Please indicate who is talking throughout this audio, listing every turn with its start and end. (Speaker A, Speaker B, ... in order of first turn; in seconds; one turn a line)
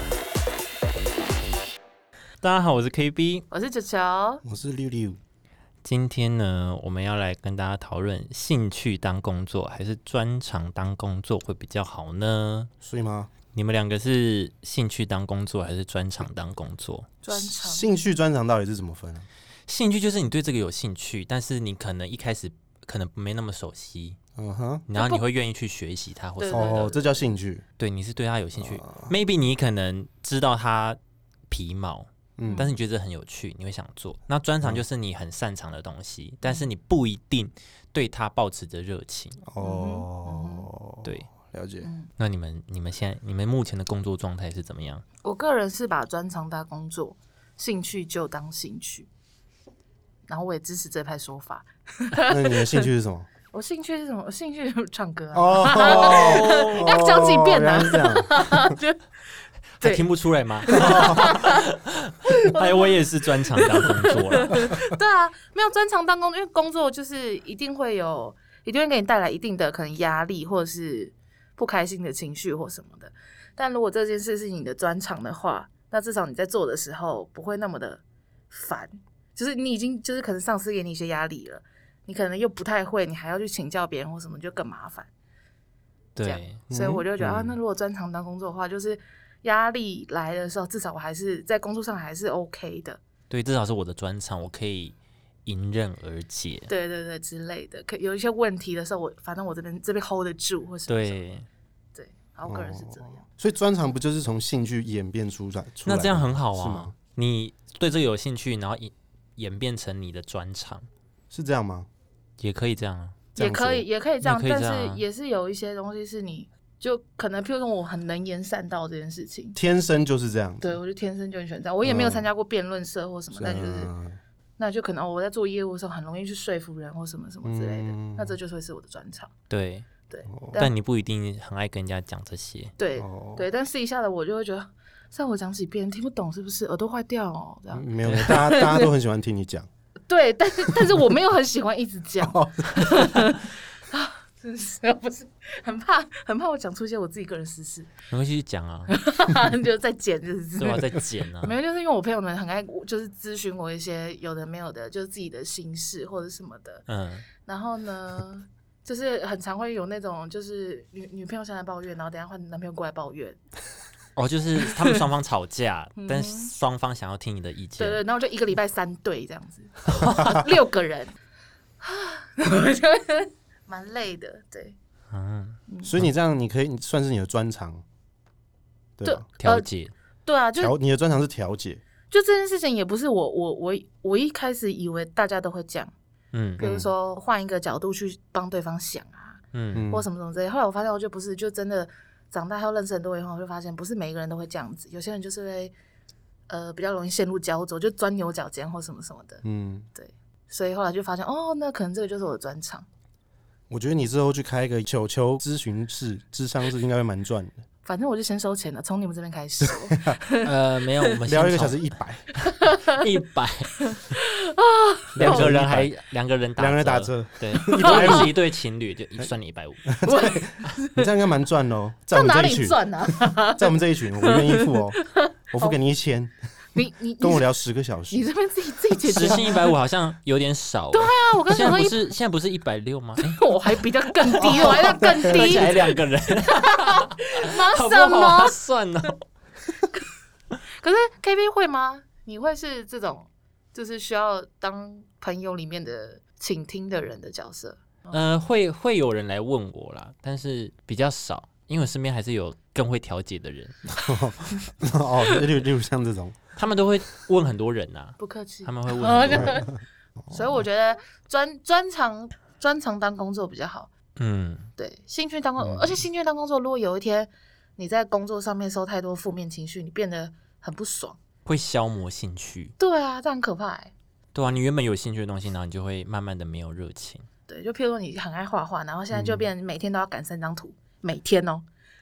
Speaker A: 2.4-3.5
Speaker B: 3.5-4.4
Speaker C: 4.4-5.2
Speaker A: 5.8-12.7
Speaker C: 12.8-13.3
Speaker A: 13.5-17.1
Speaker B: 17.2-17.9
Speaker C: 17.3-19.3
Speaker A: 19.7-24.2
Speaker C: 24.4-24.9
Speaker A: 24.9-26.9
Speaker B: 24.9-25.2
Speaker B: 26.4-27.2
Speaker C: 26.5-27.6
Speaker A: 27.8-31.0
Speaker C: 28.6-29.1
Speaker A: 31.5-39.4
Speaker C: 32.4-32.7
Speaker B: 32.5-32.7
Speaker C: 39.5-41.9
Speaker B: 39.6-40.7
Speaker A: 41.0-41.3
Speaker B: 41.8-42.1
Speaker A: 42.2-45.0
Speaker B: 45.2-49.1
Speaker B: 50.3-52.9
Speaker C: 52.3-53.3
Speaker B: 53.5-59.0
Speaker C: 55.3-58.8
Speaker A: 55.8-57.0
Speaker B: 59.8-60.1
Speaker A: 59.8-64.7
Speaker B: 60.6-61.7
Speaker C: 60.7-61.4
Speaker B: 62.3-85.1
Speaker A: 86.2-86.6
Speaker B: 86.2-93.0
Speaker C: 86.7-87.6
Speaker A: 93.3-95.0
Speaker A: 95.5-96.7
Speaker B: 96.7-101.2
Speaker A: 100.9-101.5
Speaker B: 102.0-103.2
Speaker C: 102.5-106.9
Speaker A: 105.9-110.9
Speaker C: 111.3-111.9
Speaker A: 112.4-113.2
Speaker C: 113.3-113.8
Speaker B: 113.4-119.6
Speaker A: 114.2-115.0
Speaker C: 119.5-120.6
Speaker B: 120.6-123.9
Speaker C: 121.8-122.3
Speaker C: 123.3-124.2
Speaker B: 124.6-129.3
Speaker C: 127.4-128.4
Speaker A: 129.5-129.9
Speaker B: 130.1-130.7
Speaker C: 130.3-130.6
Speaker A: 130.6-132.7
Speaker B: 132.8-138.9
Speaker C: 133.0-133.4
Speaker C: 137.7-139.7
Speaker A: 138.0-138.4
Speaker B: 140.1-147.9
Speaker C: 142.2-143.3
Speaker A: 148.1-148.9
Speaker B: 148.9-156.8
Speaker A: 150.6-151.6
Speaker A: 156.9-157.2
Speaker B: 157.5-163.4
Speaker A: 164.2-168.0
Speaker B: 164.7-165.0
Speaker B: 166.0-166.5
Speaker B: 167.8-171.2
Speaker A: 169.9-170.2
Speaker B: 171.8-174.8
Speaker A: 175.1-176.1
Speaker C: 175.8-177.8
Speaker C: 179.0-179.2
Speaker B: 179.0-179.7
Speaker A: 179.4-179.9
Speaker B: 180.2-180.7
Speaker C: 180.6-181.8
Speaker B: 182.1-185.9
Speaker A: 186.3-186.6
Speaker C: 186.6-186.9
Speaker B: 186.6-195.7
Speaker A: 189.5-189.9
Speaker C: 189.7-190.1
Speaker B: 196.5-199.4
Speaker C: 199.4-199.9
Speaker B: 199.9-202.9
Speaker C: 203.7-207.6
Speaker B: 207.8-211.2
Speaker C: 209.6-210.2
Speaker A: 210.4-211.8
Speaker C: 211.3-212.3
Speaker B: 212.5-213.0
Speaker A: 212.8-213.9
Speaker B: 213.8-215.6
Speaker C: 215.2-215.9
Speaker A: 215.2-220.0
Speaker C: 216.6-218.3
Speaker B: 217.8-218.3
Speaker C: 219.9-222.8
Speaker B: 220.0-221.1
Speaker B: 222.1-225.8
Speaker C: 223.6-225.0
Speaker C: 225.5-226.3
Speaker B: 226.7-227.5
Speaker C: 227.2-228.3
Speaker B: 228.1-229.7
Speaker A: 229.1-239.2
Speaker B: 230.9-232.0
Speaker B: 233.2-238.6
Speaker C: 234.6-235.7
Speaker B: 240.7-248.2
Speaker A: 248.1-253.8
Speaker C: 253.9-256.4
Speaker A: 256.6-259.6
Speaker B: 258.2-259.8
Speaker C: 259.3-259.6
Speaker B: 260.3-263.9
Speaker A: 264.2-264.7
Speaker B: 264.8-271.2
Speaker C: 265.6-266.0
Speaker A: 271.5-272.8
Speaker B: 272.8-273.9
Speaker A: 274.3-277.3
Speaker B: 277.5-281.6
Speaker C: 279.1-279.4